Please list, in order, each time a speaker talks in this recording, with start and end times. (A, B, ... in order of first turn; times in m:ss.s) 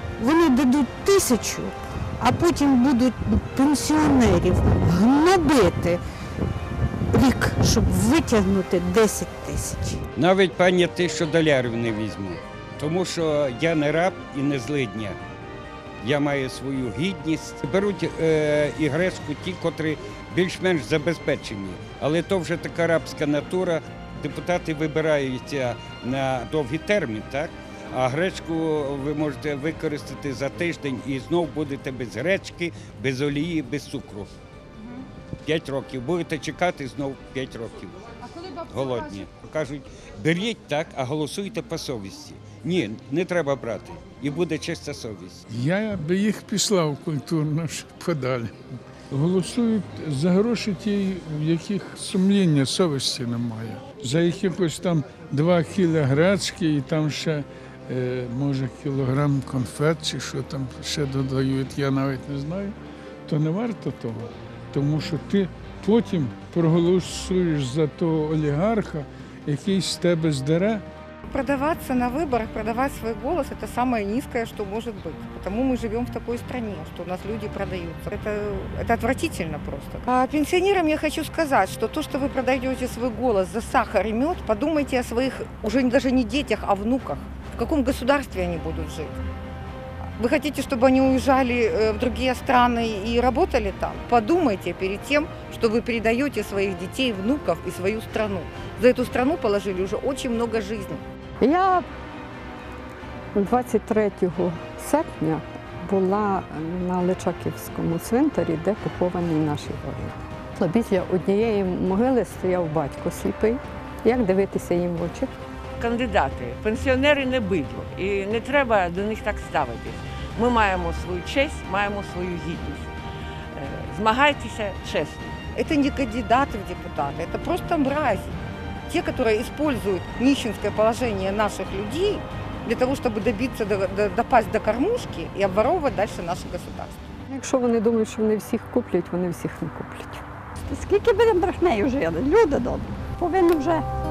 0:00.2-0:06.0 A
0:07.1-0:10.0 A
0:10.2-0:15.2 B
0:16.0-0:34.3 B
0:35.4-0:45.4 B
0:45.5-0:48.5 C
0:49.1-1:02.7 C
1:03.3-1:10.8 C
1:11.2-1:29.1 D
1:30.2-1:41.0 D
1:41.4-1:41.8 E
1:43.4-1:55.3 E
1:55.8-2:02.9 F
2:03.5-2:05.3 F
2:05.5-2:08.4 D
2:08.9-2:17.0 D
2:17.3-2:20.2 E
2:20.7-2:23.8 G